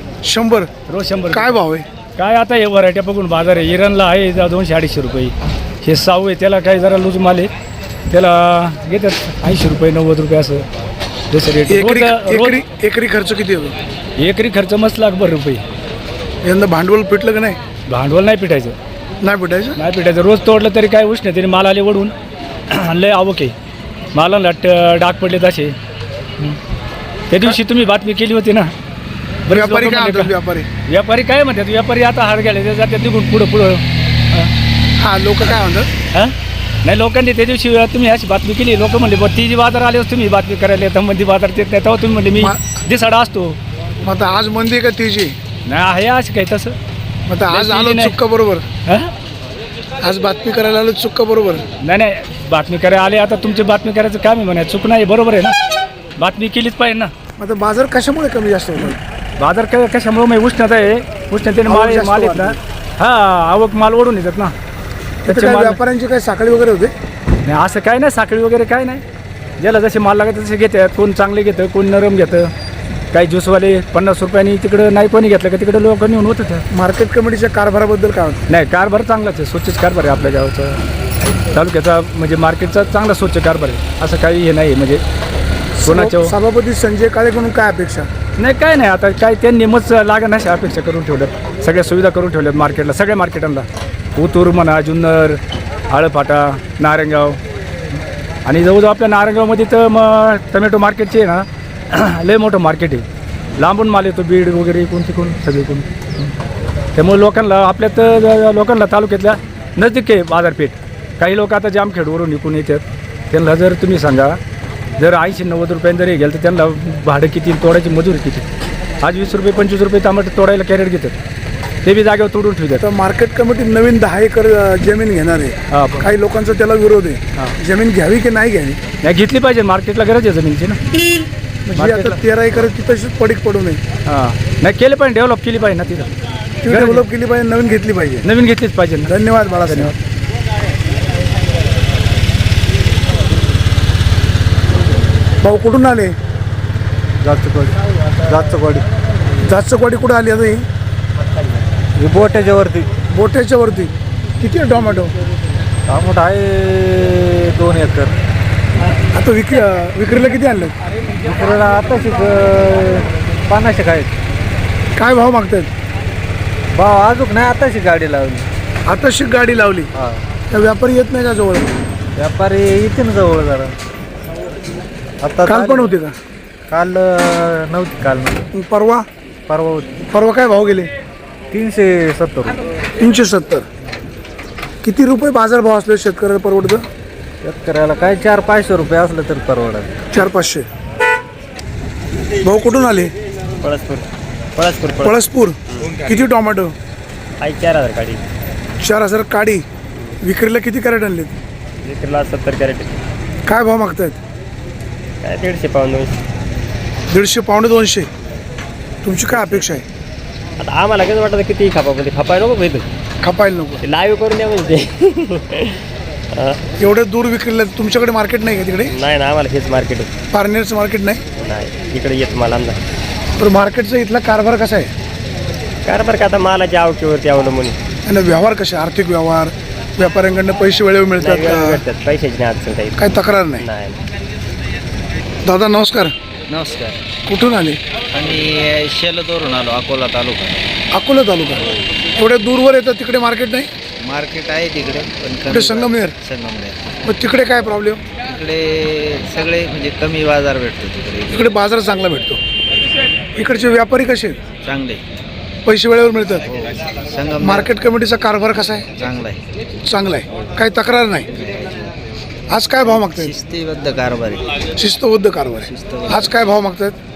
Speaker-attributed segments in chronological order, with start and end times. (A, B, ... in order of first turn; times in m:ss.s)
0:00.2-0:00.7 A
0:00.9-0:01.6 B
0:01.3-0:01.9 A
0:02.2-0:07.5 B
0:08.1-0:10.6 B
0:11.3-0:12.6 B
0:11.7-0:13.8 A
0:14.2-0:15.6 B
0:16.4-0:17.6 A
0:17.9-0:18.7 B
0:19.2-0:19.8 A
0:19.8-0:22.1 B
0:22.7-0:23.5 B
0:24.1-0:25.7 B
0:27.3-0:28.7 B
0:29.5-0:30.3 B
0:29.5-0:30.7 A
0:30.9-0:33.8 B
0:35.0-0:35.9 A
0:36.1-0:43.6 B
0:44.0-0:45.3 A
0:45.6-0:46.8 B
0:47.3-0:48.6 A
0:47.5-0:48.1 B
0:48.8-0:49.1 B
0:50.0-0:51.6 A
0:51.8-0:55.5 B
0:56.2-0:57.1 B
0:57.4-0:59.0 A
0:59.4-1:04.5 B
1:01.7-1:02.6 A
1:05.2-1:06.9 A
1:05.3-1:05.8 B
1:07.4-1:09.0 B
1:09.6-1:12.5 B
1:13.1-1:16.6 B
1:16.7-1:18.4 A
1:18.5-1:20.8 B
1:21.5-1:25.0 B
1:25.8-1:28.1 A
1:25.8-1:26.3 B
1:28.4-1:37.4 B
1:38.4-1:43.0 B
1:43.6-1:46.3 B
1:47.0-1:54.4 B
1:55.0-1:58.4 B
1:59.0-2:01.1 B
2:01.8-2:02.8 B
2:02.8-2:08.8 A
2:05.7-2:06.1 B
2:09.0-2:10.8 B
2:11.6-2:13.8 A
2:11.8-2:12.2 B
2:14.1-2:16.1 B
2:16.6-2:18.2 A
2:16.6-2:17.0 B
2:18.2-2:19.1 B
2:19.0-2:19.9 A
2:19.7-2:19.9 B
2:25.4-2:26.1 A
2:27.2-2:28.8 C
2:29.5-2:30.6 A
2:32.0-2:32.9 C
2:33.1-2:35.1 A
2:35.9-2:38.2 C
2:39.1-2:40.7 A
2:41.2-2:44.1 C
2:45.0-2:45.7 A
2:46.7-2:48.5 C
2:48.8-2:49.9 A
2:49.9-2:50.2 C
2:50.5-2:51.7 A
2:52.2-2:53.7 C
2:55.2-2:55.9 C
2:55.4-2:56.1 A
2:56.7-2:58.4 C
2:58.5-2:59.0 A
2:59.5-2:59.9 C
3:00.1-3:00.9 A
3:01.5-3:02.6 C
3:03.0-3:03.6 A
3:04.8-3:06.8 A
3:07.4-3:10.0 C
3:10.1-3:10.7 A
3:12.4-3:13.1 A
3:13.6-3:15.2 D
3:15.0-3:16.7 A
3:17.4-3:18.2 D
3:18.8-3:19.6 A
3:20.2-3:21.4 A
3:21.8-3:23.0 D
3:23.4-3:24.2 A
3:25.2-3:26.2 D
3:27.1-3:28.1 A
3:29.0-3:29.8 A
3:29.3-3:29.7 D
3:30.6-3:32.9 D
3:33.2-3:33.8 A
3:33.8-3:35.8 D
3:36.3-3:36.6 D
3:36.8-3:38.9 A
3:38.9-3:40.1 D
3:40.3-3:41.2 A
3:41.4-3:42.8 D
3:43.4-3:44.9 A
3:45.8-3:47.8 D
3:48.0-3:51.8 A
3:51.2-3:54.0 D
3:53.0-3:53.6 A
3:55.4-3:56.1 A
3:56.5-3:57.0 E
3:57.2-3:57.8 A
3:58.1-4:00.6 E
4:00.9-4:03.7 A
4:04.0-4:06.9 E
4:05.5-4:06.2 A
4:07.0-4:08.0 A
4:08.2-4:11.5 E
4:11.3-4:12.4 A
4:13.4-4:14.4 A
4:14.6-4:15.0 E
4:15.6-4:16.4 A
4:16.4-4:17.7 E
4:17.4-4:18.8 A
4:18.9-4:19.4 E
4:19.8-4:21.3 A
4:21.3-4:21.9 E
4:22.5-4:23.4 A
4:22.9-4:24.6 E
4:24.8-4:26.9 A
4:25.6-4:26.3 E